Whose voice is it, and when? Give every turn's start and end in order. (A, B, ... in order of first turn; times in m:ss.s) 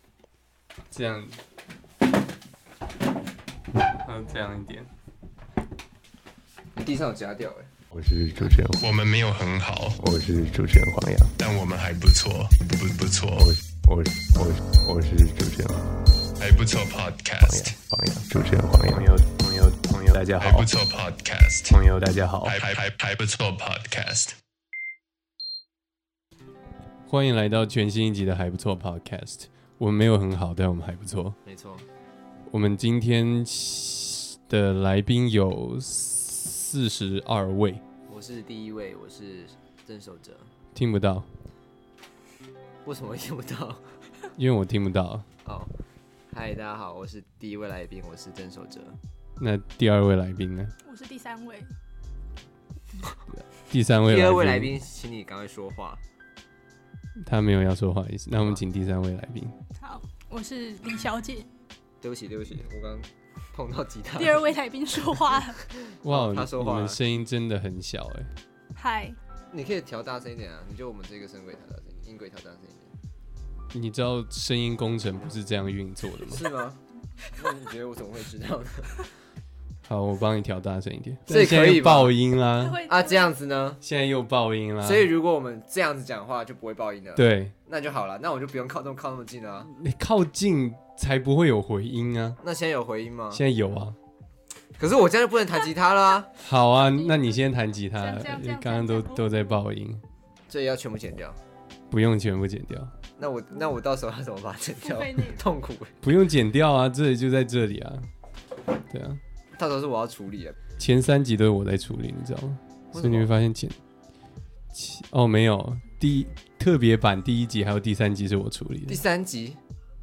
0:00.9-0:01.4 A
0:04.0-0:04.9 A
0:06.8-0:07.7 B
0:07.9-0:08.9 C
0:08.8-0:10.0 D
0:10.0-0:11.3 C
0:11.4-0:13.5 D
0:13.4-0:15.8 C
0:16.4-0:17.8 D
0:17.4-0:19.1 C
0:18.9-0:20.7 A
0:20.4-0:21.8 D
0:21.7-0:22.6 A
0:22.4-0:24.3 D
0:27.1-0:31.4 A
0:31.4-0:31.9 B
0:32.5-0:37.8 A
0:38.1-0:40.5 B
0:40.8-0:41.3 A
0:42.8-0:43.8 B
0:44.4-0:45.3 A
0:45.4-0:45.7 B
0:46.3-0:49.0 B
0:49.4-0:50.8 A
0:50.8-0:51.7 E
0:53.4-0:54.8 A
0:54.1-0:56.0 B
0:57.2-0:59.6 A
0:59.8-1:01.5 E
1:02.0-1:04.5 B
1:04.2-1:05.6 E
1:06.0-1:08.3 A
1:06.0-1:07.0 B
1:08.8-1:09.2 E
1:09.5-1:12.9 B
1:13.7-1:16.4 A
1:16.3-1:16.8 B
1:17.4-1:19.1 B
1:19.9-1:22.8 A
1:21.3-1:22.2 B
1:22.6-1:23.3 E
1:22.9-1:23.8 B
1:23.8-1:25.1 A
1:24.8-1:29.7 B
1:27.2-1:27.5 A
1:29.7-1:32.4 A
1:32.4-1:33.4 B
1:33.3-1:34.0 A
1:34.8-1:36.3 B
1:36.4-1:40.0 A
1:36.8-1:37.3 E
1:38.0-1:39.4 E
1:40.5-1:41.4 B
1:41.9-1:42.9 A
1:43.2-1:46.0 B
1:44.8-1:45.4 E
1:46.0-1:48.1 A
1:48.9-1:49.2 A
1:49.6-1:50.6 B
1:50.8-1:53.8 A
1:52.9-1:53.3 B
1:54.7-1:59.0 A
1:58.9-1:59.6 B